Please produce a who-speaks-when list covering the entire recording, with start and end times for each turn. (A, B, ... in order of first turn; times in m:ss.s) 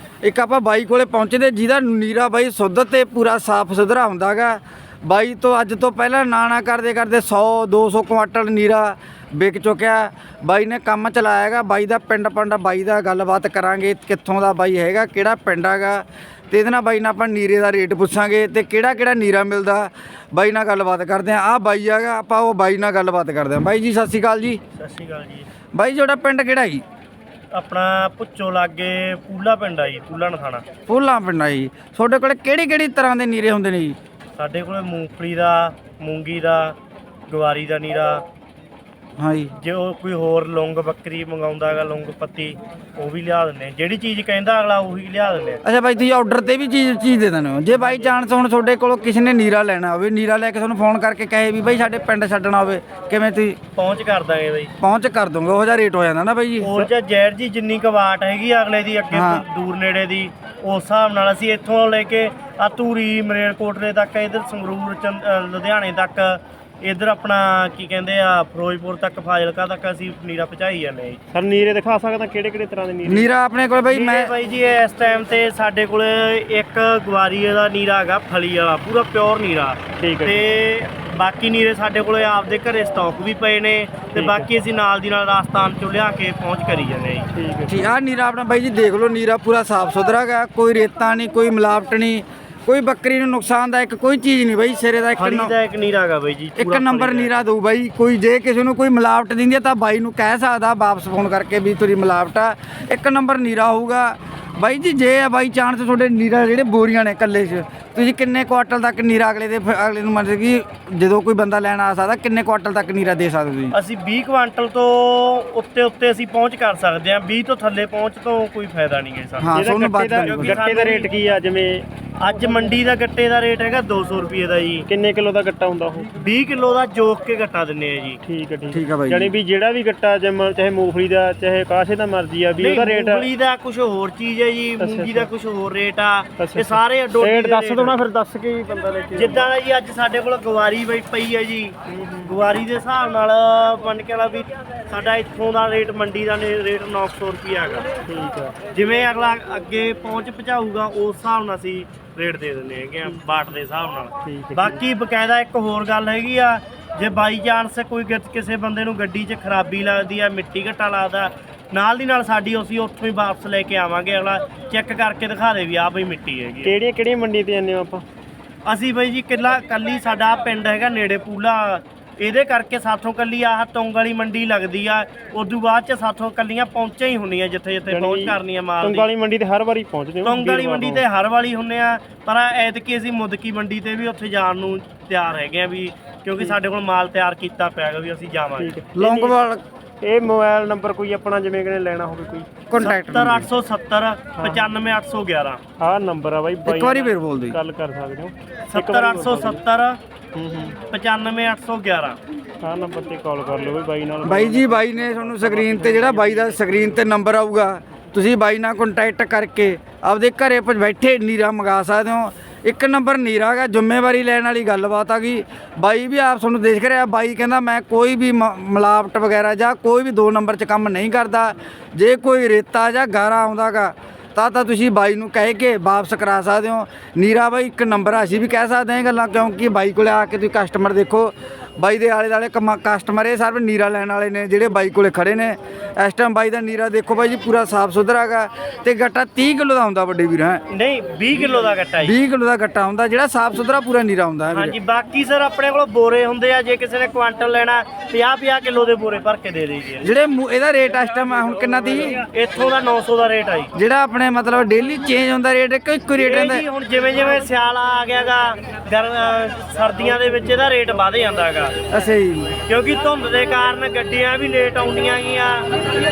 0:00.2-0:24.6 A
0:24.8-0:25.5 B
0:25.7-0:26.8 A
0:27.5-0:30.6 B
0:30.9-0:34.0 A
0:34.4-0:36.8 B
0:37.3-0:38.2 B
0:39.2-0:39.5 A
0:39.6-0:45.6 B
0:45.6-0:53.6 A
0:53.8-0:54.7 B
0:54.8-0:56.7 A
0:56.6-1:11.2 B
0:59.1-0:59.4 A
1:11.3-1:13.3 C
1:13.0-1:14.3 A
1:13.9-1:27.3 B
1:20.0-1:20.4 C
1:24.2-1:24.5 C
1:27.3-1:28.0 C
1:27.7-1:35.5 A
1:35.2-1:37.4 B
1:36.6-1:53.7 A
1:53.7-1:59.6 B
1:59.4-2:00.6 A
1:59.5-2:01.8 C
2:00.2-2:01.1 B
2:02.2-2:04.9 B
2:04.9-2:06.1 C
2:06.2-2:08.2 B
2:08.2-2:13.3 C
2:08.7-2:09.3 A
2:12.6-2:18.0 B
2:14.8-2:15.3 C
2:16.4-2:19.5 C
2:19.1-2:21.7 B
2:21.9-2:22.3 C
2:22.2-2:27.9 B
2:28.1-2:28.6 C
2:28.7-2:46.8 B
2:34.2-2:34.8 C
2:46.6-2:48.0 C
2:48.6-2:59.1 B
2:57.9-3:01.0 C
3:00.2-3:08.7 B
3:08.6-3:09.4 C
3:09.0-3:09.6 A
3:10.0-3:12.5 C
3:12.7-3:13.5 A
3:12.8-3:15.6 B
3:14.4-3:14.7 C
3:15.8-3:19.6 C
3:16.6-3:17.6 A
3:18.7-3:20.0 B
3:20.3-3:20.8 C
3:20.9-3:22.2 B
3:22.6-3:27.0 C
3:24.2-4:00.6 A
4:00.7-4:02.2 B
4:02.0-4:04.7 A
4:04.5-4:10.1 B
4:10.0-4:12.2 A
4:12.3-4:13.7 B
4:13.7-4:16.6 A
4:16.2-4:21.8 B
4:21.9-4:22.6 A
4:22.7-4:25.7 B